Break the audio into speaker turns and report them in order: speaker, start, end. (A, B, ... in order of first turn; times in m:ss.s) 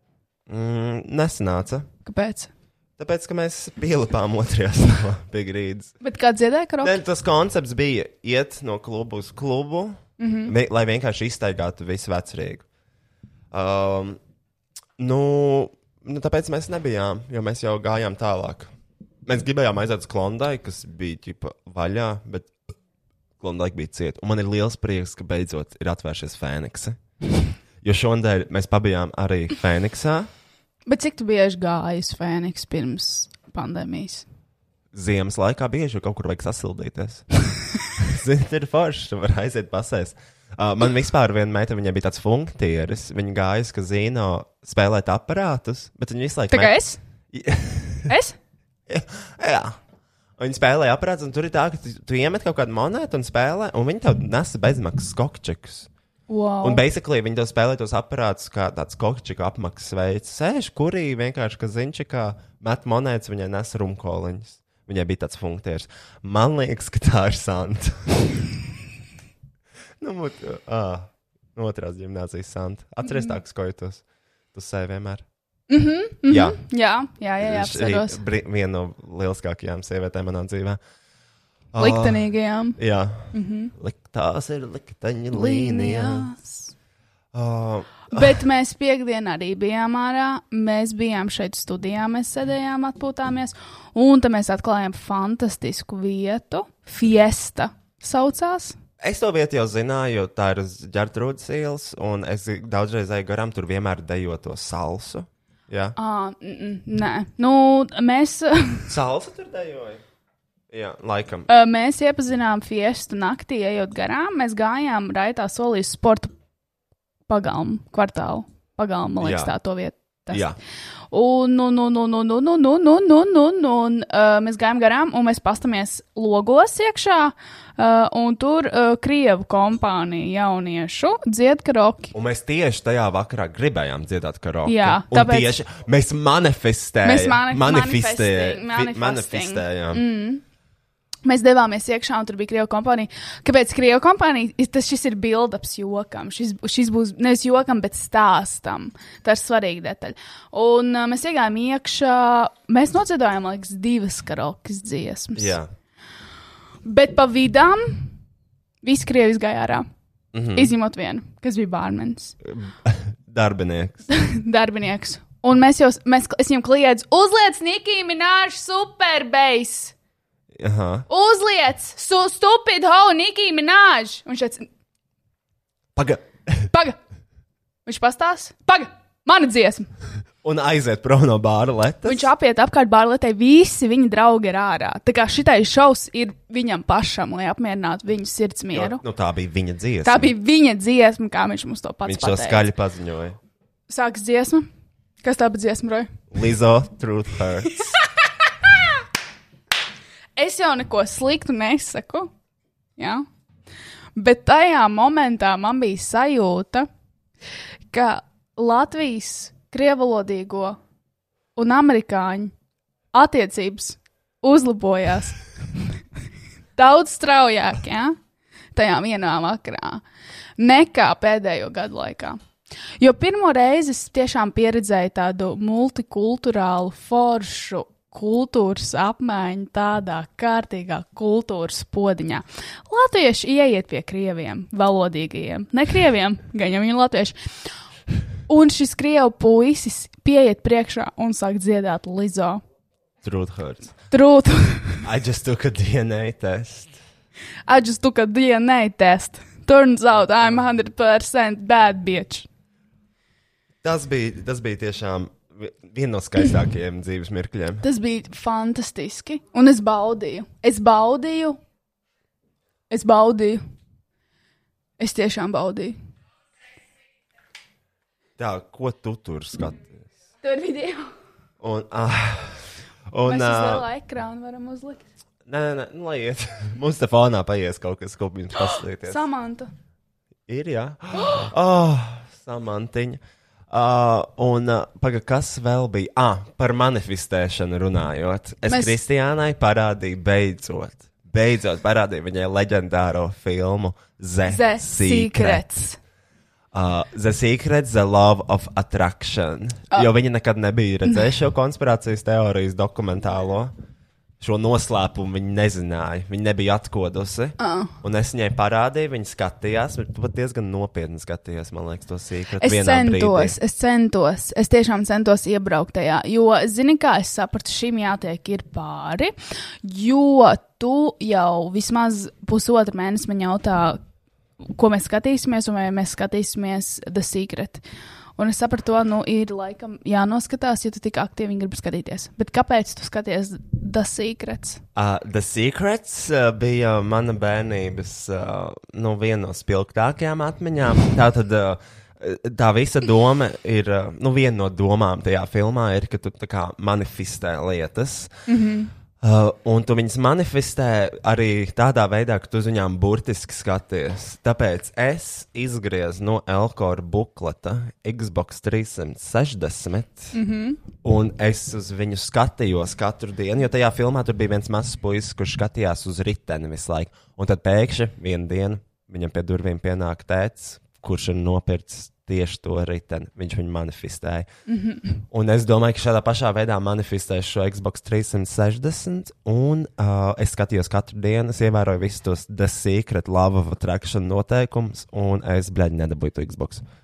0:00.5-0:01.9 A
0:02.0-0:02.5 B
0:03.0-0:05.9 A
0:06.0-0:07.0 B
0:06.8-0:12.6 A
0:10.2-0:10.5 B
0:13.5-0:14.2 A
0:15.0-0:18.7 A
0:19.2-0:22.5 A
0:23.4-0:27.0 A
0:27.8-0:30.3 A
0:30.9-0:34.2 B
0:34.9-0:37.2 A
0:38.0-0:46.8 A
0:46.5-0:47.0 B
0:47.3-0:48.1 A
0:48.1-0:48.4 B
0:48.9-0:49.8 A
0:50.4-0:55.9 A
0:56.3-0:56.8 B
0:56.6-1:08.4 A
1:10.0-1:14.0 A
1:14.5-1:15.2 A
1:15.7-1:18.2 B
1:16.3-1:16.6 A
1:17.4-1:20.8 A
1:21.7-1:26.3 A
1:21.8-1:22.8 B
1:23.3-1:23.7 B
1:25.3-1:26.7 B
1:27.3-1:28.4 A
1:28.1-1:38.8 B
1:39.0-1:46.0 A
1:46.0-1:48.9 B
1:48.9-1:50.0 A
1:50.7-1:51.5 A
1:51.5-1:56.3 B
1:57.3-2:00.4 B
1:59.2-1:59.5 A
2:00.3-2:00.6 A
2:01.1-2:12.1 B
2:12.1-2:20.0 A
2:14.7-2:15.5 B
2:17.0-2:20.4 B
2:21.2-2:35.6 B
2:35.4-2:35.7 A
2:36.8-2:38.2 B
2:38.8-2:39.8 B
2:40.3-2:40.7 A
2:40.6-2:42.4 B
2:42.4-2:44.1 A
2:44.1-2:49.9 B
2:50.6-2:51.1 A
2:51.1-2:54.7 B
2:56.0-2:56.7 A
2:56.7-2:57.0 B
2:57.9-2:59.9 B
3:00.4-3:02.3 A
3:02.0-3:09.0 B
3:08.7-3:10.3 A
3:10.0-3:12.7 B
3:12.0-3:13.4 A
3:13.9-3:14.7 B
3:15.2-3:16.1 B
3:16.3-3:17.8 A
3:20.4-3:22.3 B
3:23.0-3:23.2 B
3:24.2-3:26.9 B
3:27.9-3:30.8 B
3:31.6-3:32.5 B
3:33.1-3:35.4 B
3:36.8-3:38.2 B
3:38.8-3:40.0 B
3:40.6-3:42.4 B
3:43.0-3:57.4 B
3:58.5-4:02.6 B
4:03.2-4:04.0 A
4:04.1-4:05.0 B
4:05.0-4:07.0 A
4:07.7-4:12.5 B
4:13.8-4:17.8 A
4:17.8-4:21.6 B
4:22.9-4:23.6 B
4:25.0-4:26.0 B
4:28.4-4:30.1 A
4:30.4-4:31.1 B
4:31.6-4:33.8 A
4:33.2-4:35.0 B
4:35.5-4:39.2 A
4:38.6-4:39.7 B
4:40.5-4:55.7 A
4:48.7-4:49.0 B
4:54.5-4:56.0 B
4:56.7-5:03.7 A
5:04.4-5:13.6 A
5:07.6-5:07.9 B
5:12.6-5:24.0 B
5:24.8-5:27.8 B
5:28.4-5:34.8 B
5:35.0-5:48.3 A
5:48.5-5:48.9 B
5:49.2-6:00.4 A
6:00.3-6:00.8 B
6:01.0-6:14.5 A
6:14.7-6:15.2 B
6:15.3-6:26.8 A